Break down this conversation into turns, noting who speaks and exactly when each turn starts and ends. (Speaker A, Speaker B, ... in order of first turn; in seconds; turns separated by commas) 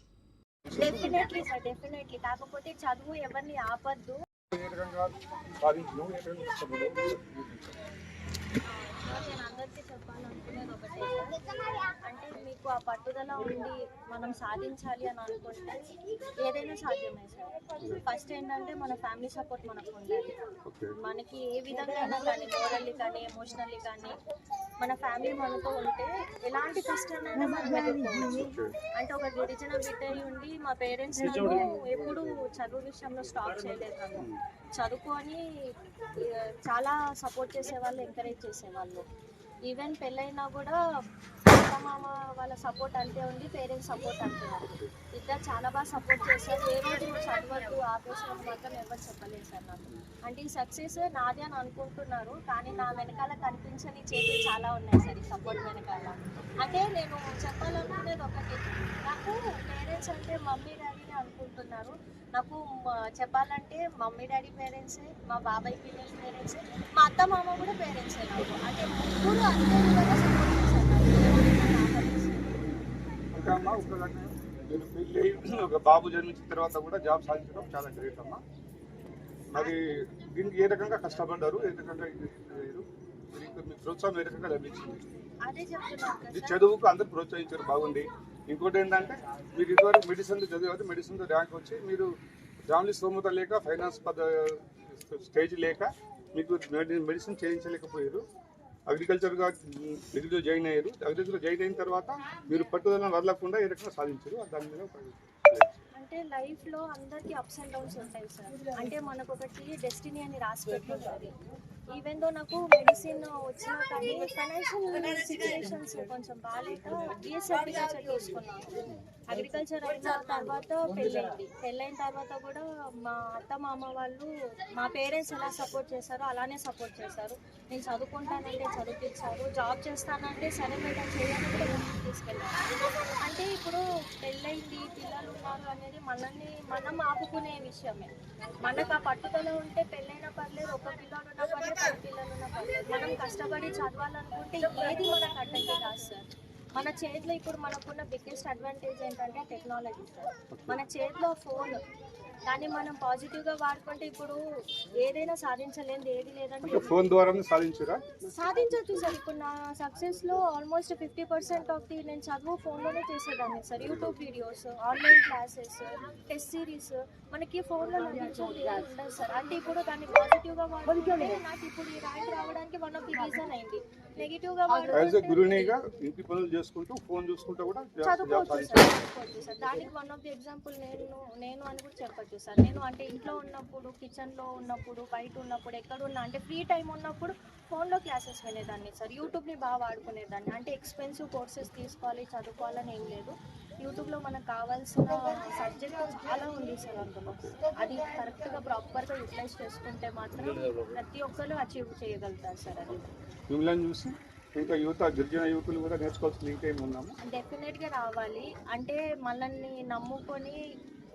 Speaker A: 0.7-1.4, Speaker B: 0.8-4.2, Speaker A: 4.5-7.8, Speaker B: 8.7-11.4, Speaker B: 12.1-15.8, Speaker B: 16.4-20.4, Speaker A: 20.7-20.9, Speaker B: 21.0-24.2, Speaker B: 24.8-28.4, Speaker A: 28.2-28.7, Speaker B: 29.0-35.4, Speaker B: 36.2-39.0, Speaker B: 39.7-40.8, Speaker B: 41.5-72.6, Speaker A: 56.4-56.7, Speaker A: 73.3-78.4, Speaker A: 79.5-85.1, Speaker B: 85.4-86.6, Speaker A: 86.3-92.1, Speaker A: 92.6-98.2, Speaker A: 98.9-105.8, Speaker B: 106.0-111.4, Speaker B: 111.9-132.6, Speaker B: 133.2-138.1, Speaker B: 138.6-151.8, Speaker A: 150.5-150.8, Speaker B: 152.5-154.4, Speaker B: 155.0-156.9, Speaker A: 156.6-158.0, Speaker B: 158.3-175.7, Speaker A: 163.8-164.2, Speaker A: 174.9-179.0, Speaker B: 178.0-203.1, Speaker A: 197.2-197.5, Speaker A: 200.4-200.8, Speaker A: 203.5-207.2, Speaker B: 207.2-210.6